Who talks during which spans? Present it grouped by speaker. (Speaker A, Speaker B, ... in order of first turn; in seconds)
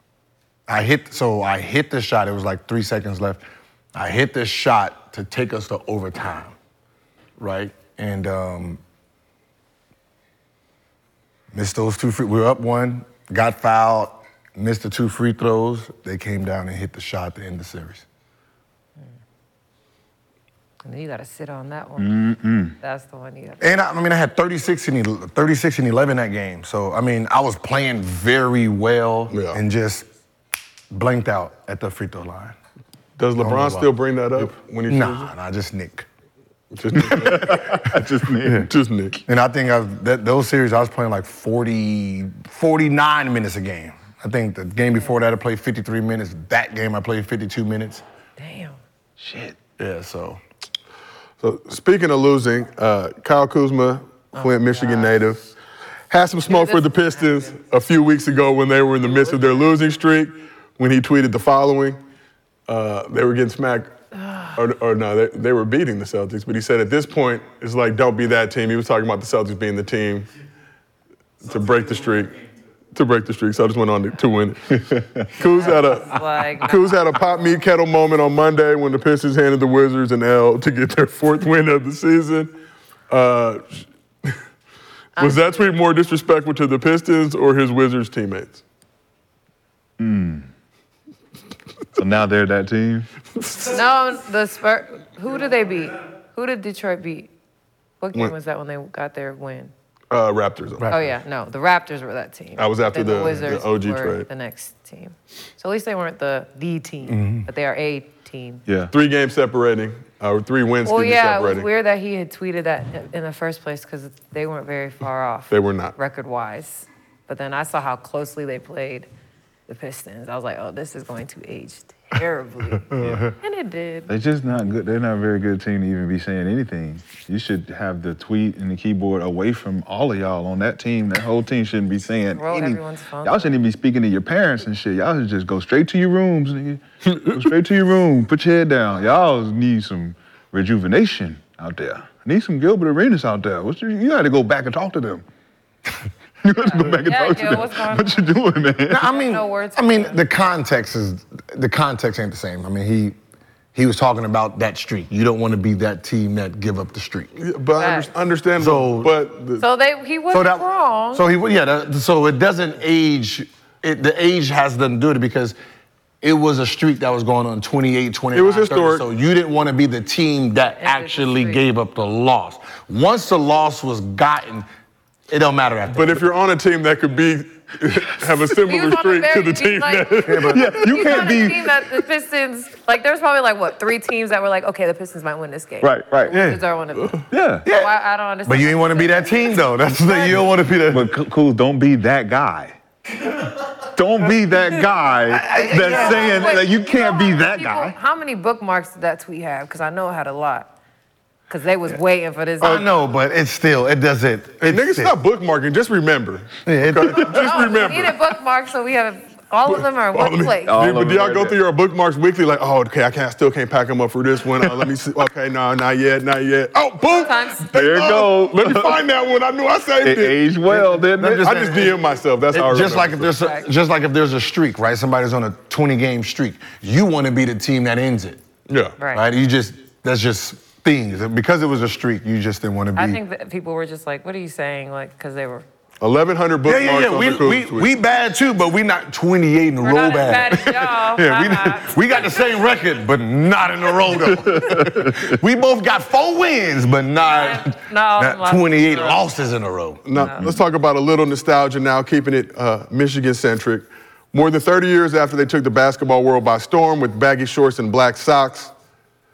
Speaker A: 0.7-6.5, 7.4-8.8, 11.5-18.0, 23.6-30.1, 30.9-32.5, 33.4-36.0, 38.4-38.7, 39.2-48.0, 49.8-50.4, 100.8-101.1, 107.0-107.5, 122.9-123.3, 148.9-153.2, 153.7-157.3, 158.6-159.1, 160.3-165.6, 166.2-174.7, 175.3-176.3, 180.2-181.3, 186.3-186.6, 187.6-187.9, 188.4-191.1, 195.3-196.7, 202.6-205.1, 206.7-207.6, 220.7-228.4, 229.1-233.2, 236.6-250.0
Speaker B: 20.8-22.1, 22.8-23.7, 48.4-48.8, 54.3-55.2, 56.5-57.6, 64.1-64.6, 75.4-77.0, 85.2-85.7, 93.7-97.3, 98.0-99.7, 100.9-108.6, 110.8-119.1, 119.7-124.1, 132.3-133.6, 146.6-148.4, 149.0-150.2, 157.8-158.1, 159.6-161.2, 170.8-171.6, 178.6-190.5, 195.6-200.7, 201.5-202.9, 207.2-210.7, 217.0-217.7, 223.4-223.7, 229.0-229.2, 232.9-235.7, 239.8-242.5, 247.2-249.3, 250.1-250.5
Speaker C: 22.0-22.7, 36.9-38.7, 49.2-49.6, 90.0-90.5, 91.9-93.1, 108.7-108.9, 123.0-123.3, 124.1-145.2, 146.4-149.1, 180.4-181.9, 185.8-186.4, 187.3-187.7, 190.9-192.8, 193.8-197.9, 210.7-211.6, 217.7-219.0, 220.0-221.6, 244.4-245.3, 250.2-250.6
Speaker D: 29.3-29.6, 33.2-35.3, 36.7-38.0, 38.5-39.2, 51.4-55.4, 56.1-62.0, 62.7-63.9, 64.5-70.3, 71.4-72.3, 72.9-82.5, 83.1-84.3, 85.2-88.6, 100.1-100.9, 102.6-104.2, 108.9-111.7, 115.5-115.9, 137.1-137.4, 157.4-159.6, 168.3-169.1, 175.9-180.7, 204.6-208.2, 209.7-220.5, 221.4-223.3, 228.7-228.9, 236.0-237.9, 250.0-258.7